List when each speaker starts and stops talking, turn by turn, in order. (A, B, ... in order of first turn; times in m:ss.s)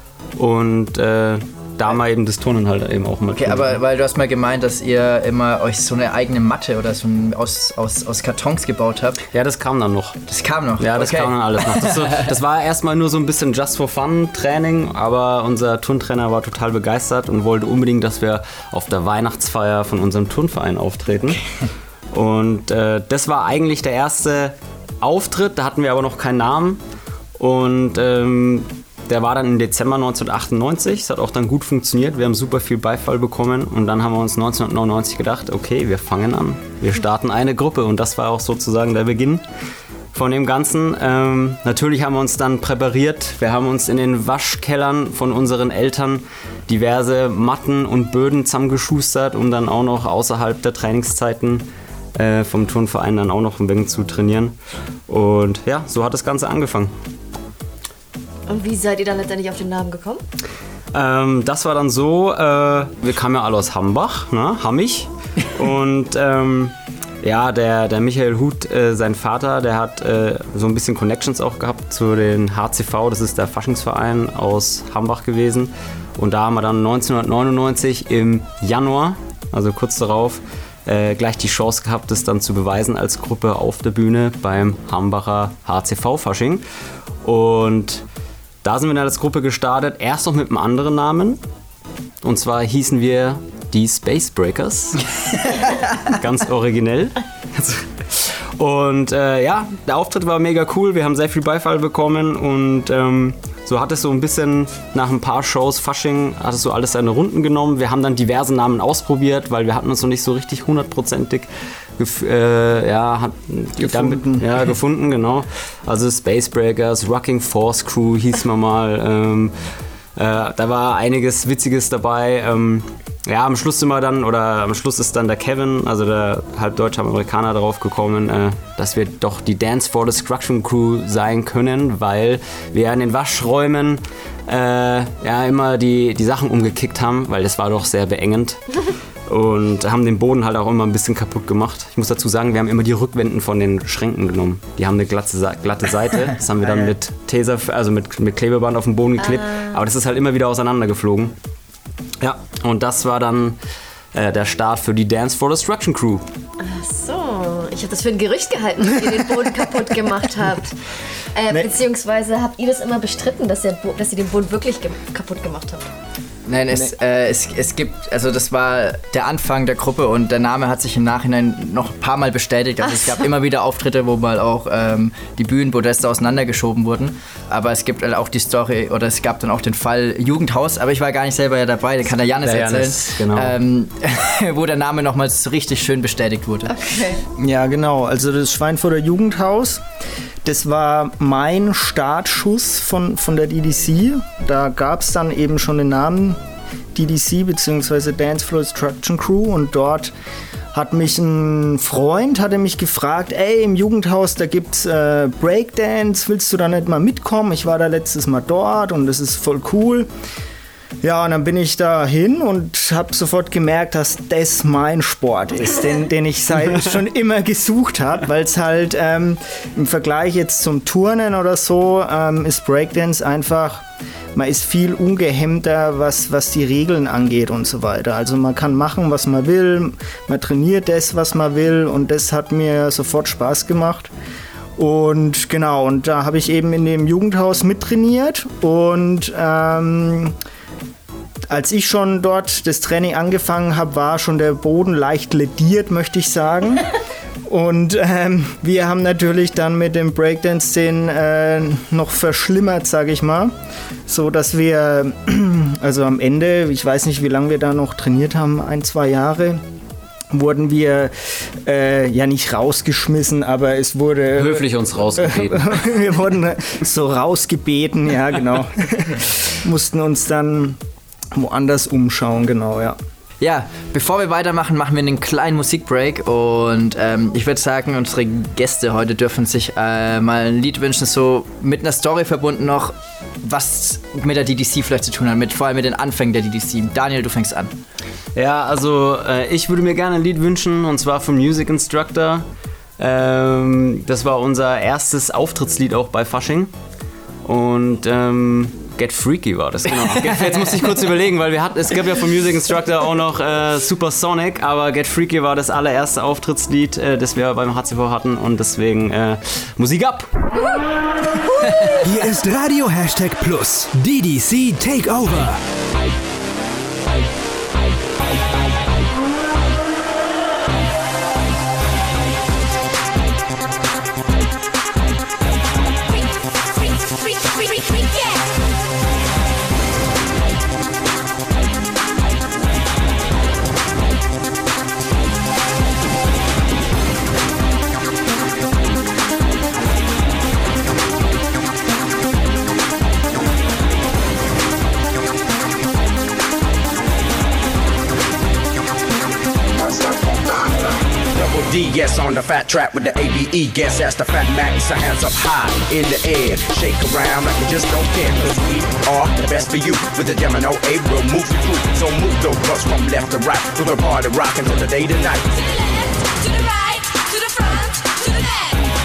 0:00.4-0:03.8 A
0:03.3-0:09.2 B
0:09.3-0:10.2 A
0:10.3-0:12.3 B
0:10.8-0:21.4 A
0:22.1-0:26.8 A
0:27.4-0:39.4 A
0:40.1-0:54.6 A
0:55.1-0:56.9 A
0:58.5-1:00.2 C
1:00.9-1:26.6 A
1:27.2-1:28.0 A
1:28.6-1:31.4 A
1:32.2-1:35.0 A
1:36.0-1:59.5 A
1:53.8-1:54.5 D
2:00.2-2:31.3 A
2:26.6-2:26.9 D
2:29.3-2:29.7 C
2:32.2-2:33.6 A
2:34.1-2:36.2 A
2:36.6-2:40.8 C
2:41.3-2:45.9 C
2:46.4-3:06.7 B
3:02.4-3:03.6 A
3:06.7-3:07.2 C
3:07.4-3:09.8 D
3:10.4-3:16.4 D
3:16.9-3:20.1 D
3:20.7-3:30.1 D
3:31.0-3:54.1 D
3:54.8-4:00.4 D
4:01.5-4:06.9 D
4:07.4-4:13.5 D
4:14.1-4:19.6 D
4:20.3-4:30.8 D
4:24.4-4:25.8 A
4:31.3-4:33.0 D
4:33.4-4:47.7 B
4:48.4-4:52.4 A
4:53.0-4:56.7 A
4:57.4-5:10.3 A
5:00.3-5:00.6 B
5:12.0-5:15.6 E
5:26.1-5:28.5 F
5:51.3-6:05.4 G
6:05.5-6:08.8 F